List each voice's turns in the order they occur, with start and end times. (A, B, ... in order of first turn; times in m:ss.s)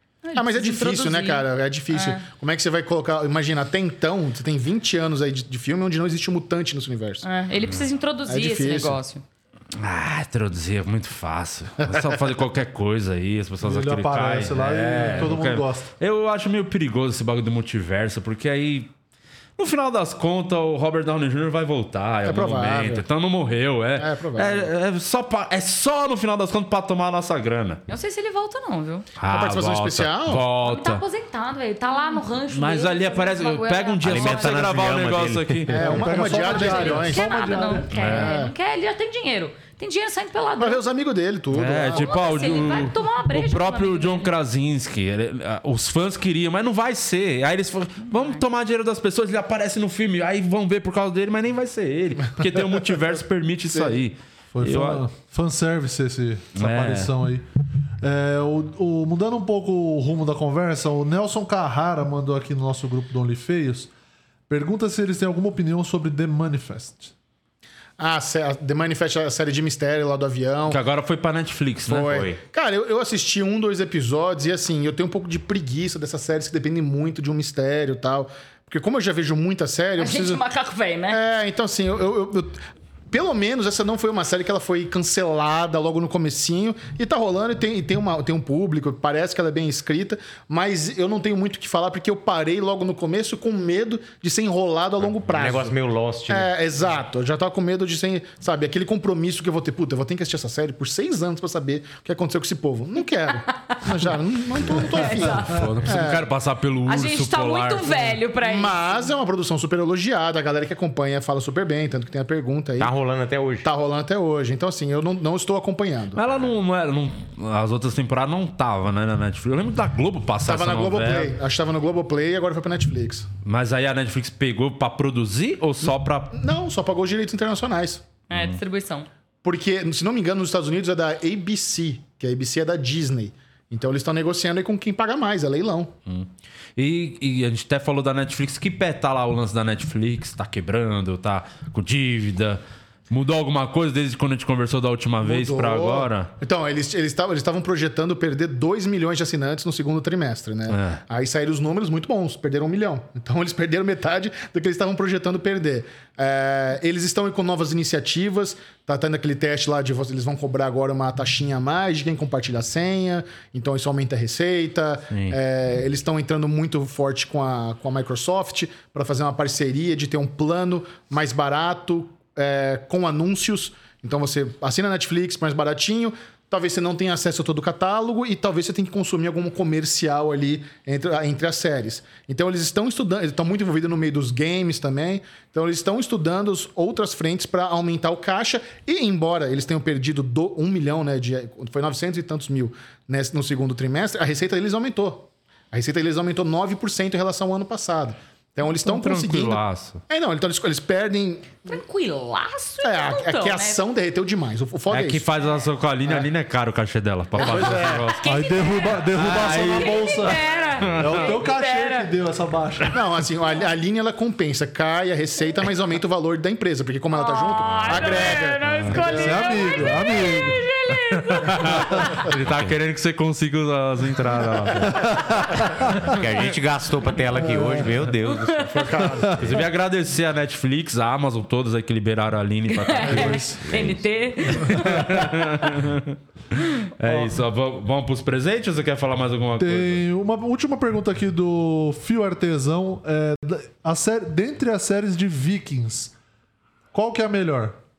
0:00.2-0:02.2 A
0:00.4-0:07.2 B
0:07.2-0:09.2 A
0:08.3-0:09.0 B
0:09.8-0:18.9 C
0:13.6-0:15.9 D
0:19.6-0:27.8 C
0:22.2-0:23.0 B
0:24.0-0:24.7 B
0:27.9-0:29.1 A
0:29.2-0:31.0 C
0:29.3-0:30.4 B
0:30.6-0:34.8 A
0:32.5-0:36.1 C
0:34.0-0:35.7 E
0:35.7-0:37.4 B
0:35.7-0:37.9 D
0:36.2-0:40.8 A
0:37.9-0:38.3 C
0:38.0-0:38.5 B
0:40.6-0:42.6 B
0:41.5-0:55.0 C
0:41.9-0:44.3 A
0:48.1-0:48.4 A
0:54.5-0:57.4 D
0:56.6-0:57.1 C
0:58.0-1:03.9 D
1:04.5-1:07.1 D
1:08.0-1:10.8 B
1:10.7-1:12.1 C
1:11.9-1:20.4 B
1:12.0-1:12.4 E
1:20.0-1:21.2 A
1:21.1-1:35.8 B
1:35.2-1:36.5 E
1:36.3-1:46.3 B
1:43.5-1:43.8 A
1:44.8-1:45.6 A
1:45.2-1:48.1 C
1:46.9-1:49.0 A
1:48.4-1:52.9 B
1:52.8-1:53.7 E
1:53.6-1:56.2 B
1:56.2-2:01.4 C
2:00.4-2:03.3 B
2:03.4-2:06.3 C
2:06.3-2:08.0 B
2:08.3-2:09.1 A
2:08.3-2:08.6 C
2:09.4-2:15.9 B
2:16.1-2:26.3 C
2:25.2-3:21.7 B
2:30.7-2:31.0 C
2:45.1-2:45.4 C
3:18.8-3:20.0 C
3:21.7-3:23.8 A
3:22.8-3:25.2 B
3:24.9-3:28.2 C
3:27.4-3:28.1 B
3:27.4-3:32.1 A
3:28.2-3:33.0 D
3:29.1-3:31.3 C
3:32.9-3:39.7 B
3:37.1-3:42.3 A
3:38.6-3:39.0 C
3:38.9-3:40.6 D
3:41.3-3:45.2 C
3:44.9-3:45.6 D
3:46.0-3:49.6 E
3:48.3-3:49.0 A
3:48.8-3:49.4 B
3:49.4-3:53.6 C
3:52.7-3:55.8 A
3:53.0-3:53.6 D
3:53.7-3:54.0 E
3:54.6-3:56.2 C
3:54.7-3:55.0 D
3:56.9-4:00.0 C
3:57.0-3:57.4 D
3:59.6-4:06.1 D
4:06.9-4:07.8 D